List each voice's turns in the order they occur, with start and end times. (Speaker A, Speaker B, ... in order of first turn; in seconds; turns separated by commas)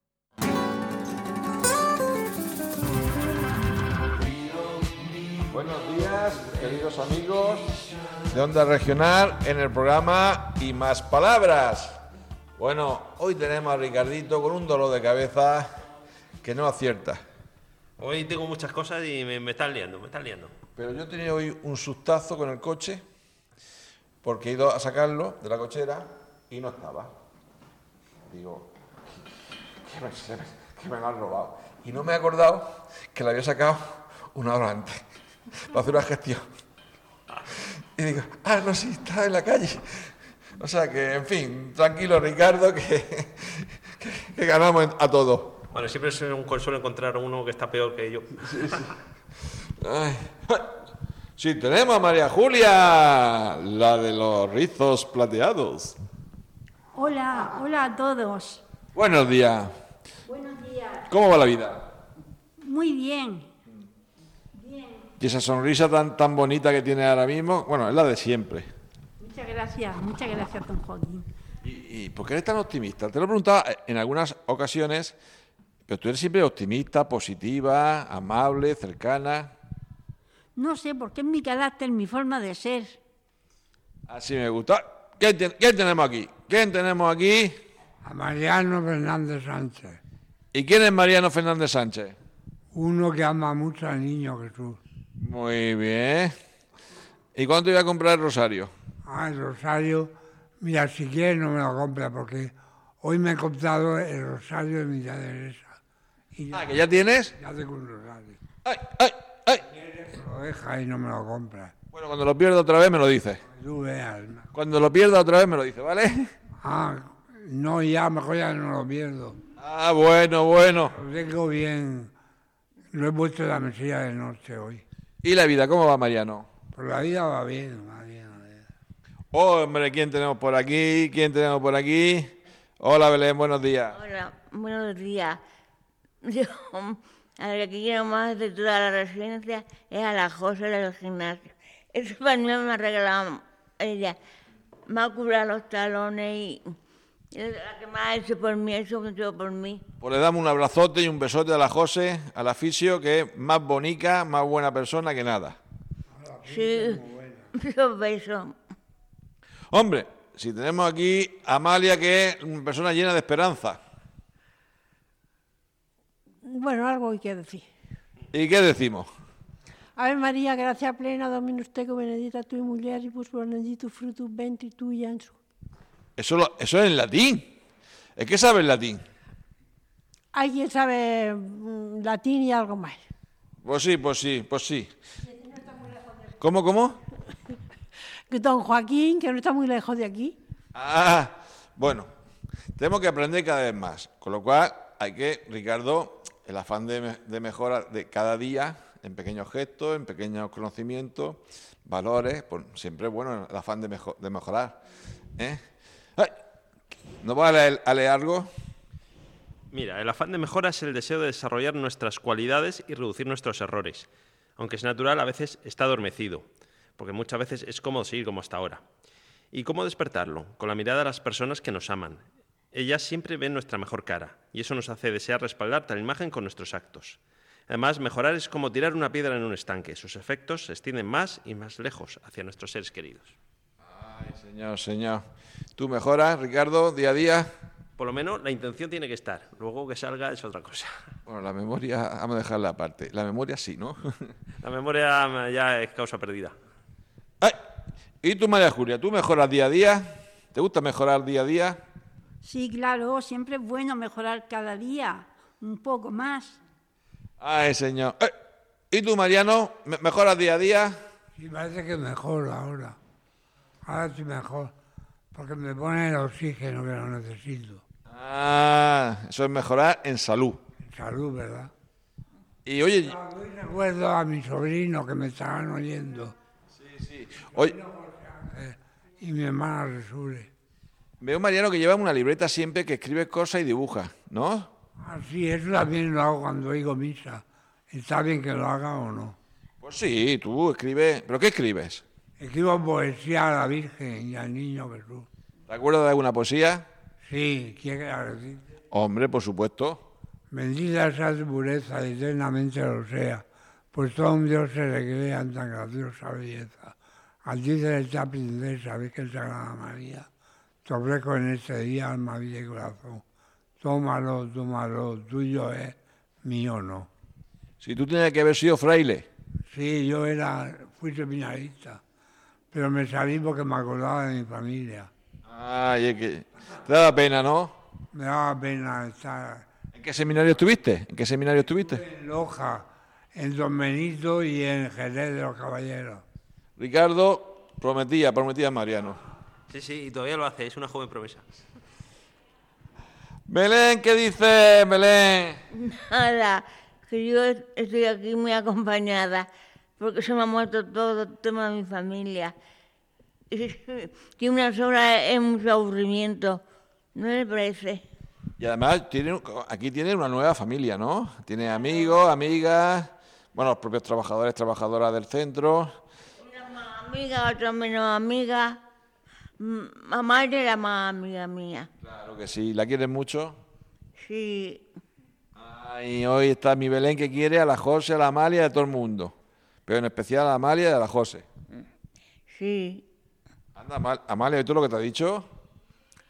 Speaker A: 5.5-7.8, Speaker A: 8.3-12.0, Speaker A: 12.6-15.7, Speaker A: 16.4-17.2, Speaker B: 18.0-20.5, Speaker A: 20.8-23.0, Speaker A: 24.2-27.1, Speaker A: 28.2-28.7, Speaker A: 29.8-35.0, Speaker A: 35.7-36.4, Speaker A: 38.0-40.0, Speaker A: 40.6-45.6, Speaker B: 45.7-48.7, Speaker A: 48.5-48.8, Speaker A: 49.8-50.7, Speaker A: 51.4-56.0, Speaker C: 56.9-58.6, Speaker A: 59.0-59.7, Speaker C: 60.2-61.0, Speaker A: 61.1-61.9, Speaker C: 62.6-63.5, Speaker C: 64.6-65.0, Speaker A: 65.2-68.7, Speaker C: 69.2-71.2, Speaker A: 71.6-75.2, Speaker A: 75.9-79.5, Speaker C: 80.6-83.0, Speaker A: 84.1-87.6, Speaker D: 88.0-90.0, Speaker A: 90.5-92.2, Speaker D: 92.7-94.8, Speaker A: 95.2-96.3, Speaker A: 97.4-98.7, Speaker D: 99.0-105.8, Speaker D: 106.3-106.7, Speaker A: 106.5-107.3, Speaker D: 107.4-108.4, Speaker A: 108.6-109.6, Speaker D: 109.7-111.7, Speaker A: 111.9-113.4, Speaker D: 113.4-114.5, Speaker A: 114.5-116.3, Speaker D: 116.6-119.4, Speaker A: 119.6-120.9, Speaker D: 120.9-122.1, Speaker D: 122.9-124.8, Speaker A: 125.2-126.5, Speaker D: 126.7-128.7, Speaker A: 129.3-134.0, Speaker E: 133.9-135.4, Speaker E: 136.2-144.2, Speaker E: 144.9-146.6, Speaker E: 147.3-149.8, Speaker A: 150.0-155.6, Speaker D: 156.1-157.5, Speaker E: 156.5-157.0, Speaker E: 157.6-158.5, Speaker A: 159.7-163.8, Speaker F: 166.4-167.7, Speaker A: 168.3-169.1, Speaker F: 170.0-175.3, Speaker A: 176.2-177.5, Speaker A: 178.2-179.0, Speaker F: 180.3-183.0, Speaker A: 183.6-184.9, Speaker F: 185.3-186.1, Speaker A: 186.4-187.0, Speaker F: 188.3-190.3, Speaker A: 190.7-192.1, Speaker A: 192.8-204.8, Speaker A: 207.2-208.5, Speaker B: 209.7-216.4, Speaker B: 217.0-218.8, Speaker B: 219.5-222.2, Speaker B: 222.7-233.3, Speaker A: 233.8-235.2, Speaker A: 235.8-237.5, Speaker B: 238.0-240.9, Speaker A: 241.3-244.0, Speaker B: 244.6-246.6, Speaker A: 248.2-251.8, Speaker C: 252.4-256.6, Speaker A: 257.4-258.3, Speaker A: 258.9-261.0, Speaker D: 261.4-263.0, Speaker D: 263.9-264.7, Speaker D: 265.3-267.8, Speaker A: 268.1-270.6, Speaker D: 270.8-271.7, Speaker A: 272.6-273.2, Speaker D: 273.0-276.3, Speaker A: 276.8-277.8, Speaker D: 277.5-280.5, Speaker A: 281.2-284.7, Speaker D: 285.0-289.4, Speaker A: 289.8-292.0, Speaker D: 292.4-295.3, Speaker A: 295.7-296.8, Speaker D: 297.2-298.6, Speaker A: 298.9-300.0, Speaker D: 300.5-310.3, Speaker D: 310.9-313.2, Speaker D: 313.8-317.1, Speaker A: 317.8-319.2, Speaker D: 319.7-322.0, Speaker D: 322.7-325.1, Speaker A: 325.5-327.7, Speaker D: 328.1-329.7, Speaker A: 329.9-332.0, Speaker D: 331.9-336.2, Speaker A: 336.8-339.2, Speaker B: 339.7-341.4, Speaker A: 343.5-345.6, Speaker E: 345.8-349.4, Speaker E: 350.0-352.5, Speaker E: 353.5-356.6, Speaker E: 357.1-358.0, Speaker A: 358.6-365.9, Speaker E: 366.4-368.8, Speaker E: 369.6-371.9, Speaker A: 372.0-373.6, Speaker E: 374.2-374.8, Speaker A: 375.6-379.3, Speaker A: 379.9-381.4, Speaker E: 382.5-383.1, Speaker A: 383.8-385.4